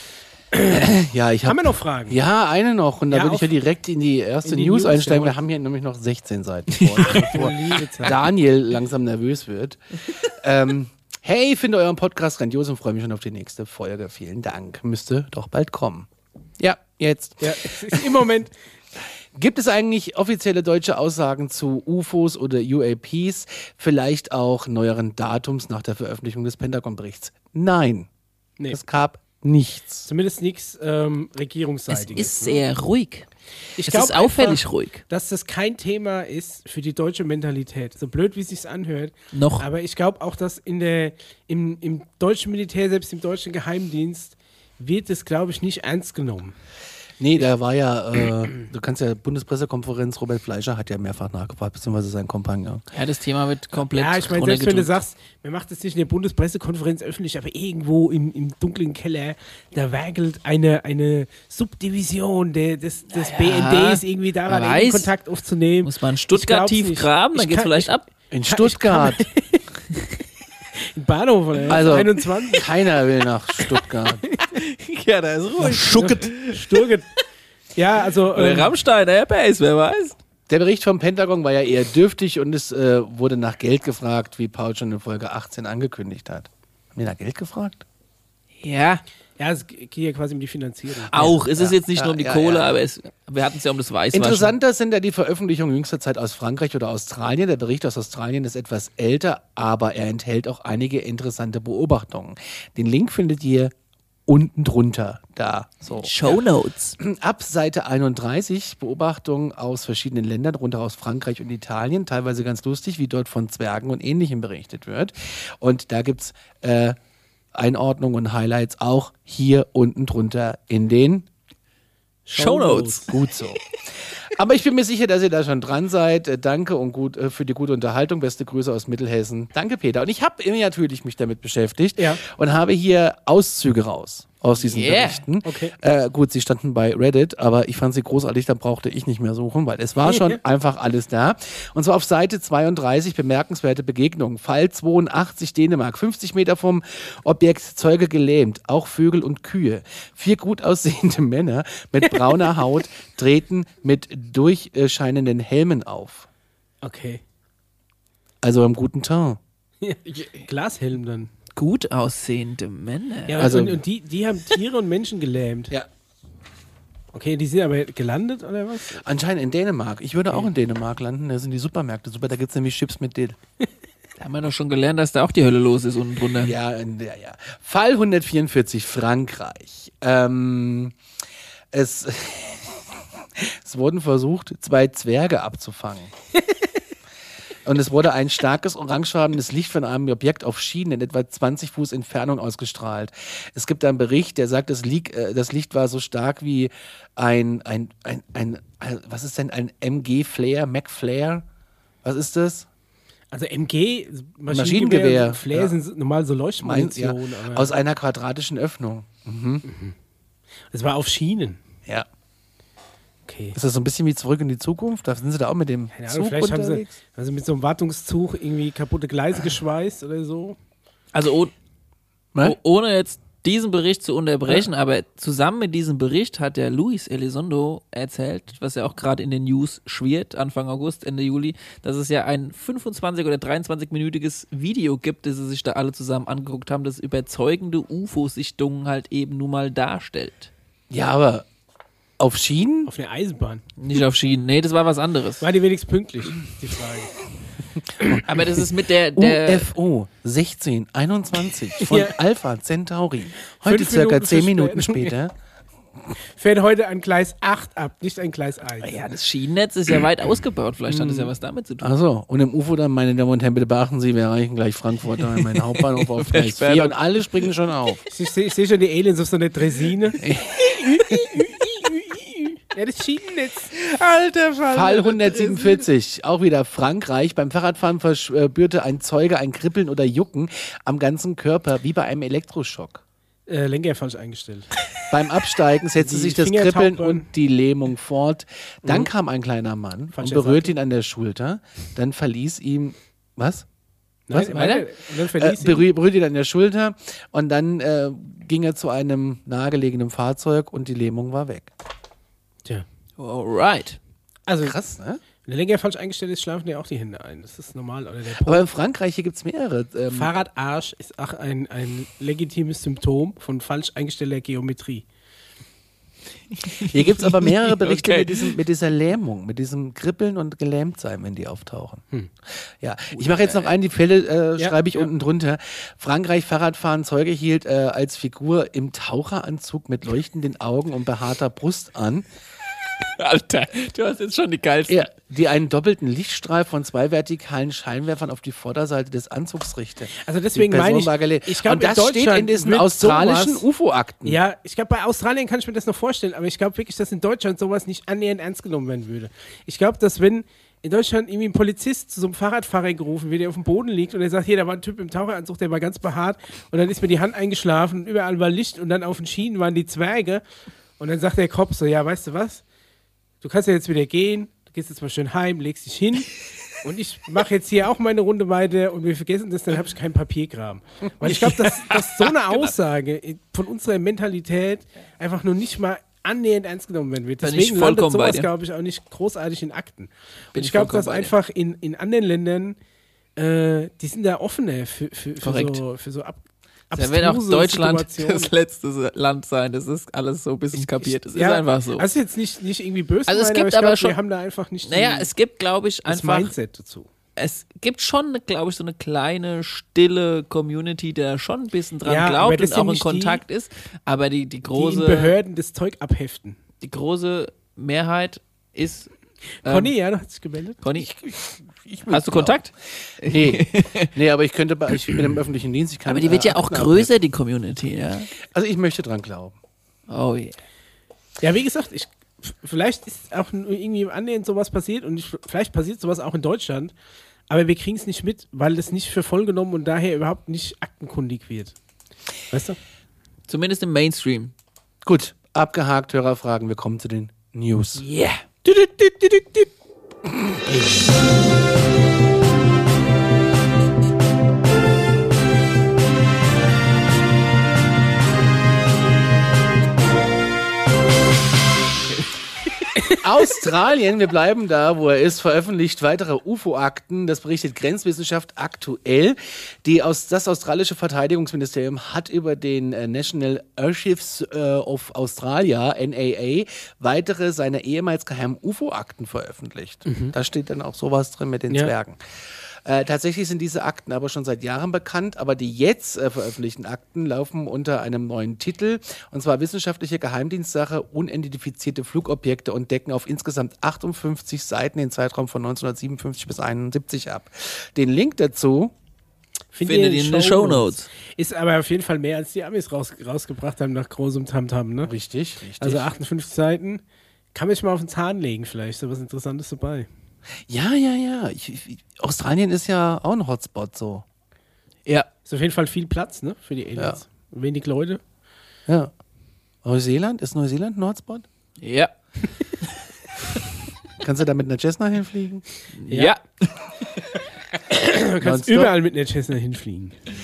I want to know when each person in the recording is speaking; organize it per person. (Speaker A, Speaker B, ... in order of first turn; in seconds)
Speaker A: 0.5-0.9, 1.5-2.2, 3.1-3.5, 4.4-5.4, 7.0-8.2, 17.4-18.5, 30.1-32.6, 33.8-46.5, 53.9-67.9, 68.5-69.6, 70.8-72.7, 74.3-74.6, 75.6-77.1, 77.8-78.7, 89.4-91.4, 122.3-123.1, 132.0-132.2, 135.4-135.8, 140.0-140.4, 156.8-157.2, 159.8-161.3, 163.3-165.7, 167.1-169.0, 203.3-207.7, 209.7-209.9, 210.7-211.6, 213.3-213.6, 215.9-220.6, 242.9-243.6, 245.4-247.2, 251.8-252.2, 253.6-255.2, 256.4-259.0, 268.1-270.2, 271.0-271.9, 272.7-273.7, 283.5-284.7, 286.0-287.3, 288.8-289.1, 290.1-290.7, 294.3-295.9, 304.5-304.8, 305.4-308.6, 310.1-315.1, 324.6-325.1, 340.2-343.6, 344.2-360.4, 361.0-362.6, 363.4-382.8, 383.4-388.5, 390.7-395.3, 396.1-397.1, 402.1-403.4, 404.7-406.6, 409.6-410.8, 421.4-426.9, 427.5-431.8, 432.5-432.8, 470.1-470.3, 489.7-495.1, 495.8-497.0, 497.5-500.1, 505.4-508.2, 516.1-516.3, 517.9-520.2
Speaker B: 0.7-16.1, 16.6-18.1, 19.4-28.1, 28.7-30.1, 47.2-52.9, 68.3-69.3, 71.7-74.3, 80.5-87.8, 91.1-92.7, 94.1-103.7, 104.3-106.4, 107.0-117.0, 117.5-121.3, 123.1-156.3, 158.4-159.4, 163.4-163.8, 169.0-173.4, 176.4-180.9, 181.7-186.1, 187.7-201.4, 202.0-202.7, 204.5-205.8, 206.6-209.7, 213.5-216.9, 240.9-241.5, 242.2-242.9, 248.0-248.2, 249.2-255.3, 261.8-268.0, 270.2-271.2, 274.7-283.0, 285.1-293.6, 294.3-294.7, 295.4-301.7, 304.6-305.2, 308.4-310.3, 316.8-322.0, 322.8-332.2, 334.9-344.4, 411.0-412.6, 413.2-417.1, 418.4-419.6, 435.1-438.0, 440.3-440.8, 453.1-472.2, 472.9-488.9, 495.1-496.1, 500.7-504.2, 508.9-509.1, 509.8-511.4, 514.2-515.6, 518.4-518.9
Speaker C: 6.7-7.3, 31.9-33.3, 33.8-35.0, 39.3-39.7, 52.9-55.0, 63.1-65.1, 65.8-68.1, 74.4-76.8, 78.3-80.2, 88.6-89.0, 91.1-94.5, 106.0-107.0, 122.3-123.2, 134.6-135.2, 161.6-163.5, 174.2-176.6, 221.1-221.5, 222.4-240.5, 243.8-245.4, 248.2-249.7, 258.8-261.9, 265.2-267.0, 273.7-275.9, 294.5-294.9, 303.2-304.0, 316.6-318.6, 323.1-323.7, 333.1-335.1, 371.2-372.7, 377.4-378.5, 380.5-381.3, 385.4-385.8, 386.9-392.1, 393.3-394.1, 394.9-396.5, 397.4-405.4, 406.8-409.1, 409.6-409.9, 410.8-411.1, 412.1-414.1, 416.1-418.3, 420.1-420.6, 433.5-434.5, 438.0-438.4, 489.9-491.1, 511.8-512.1, 516.0-517.0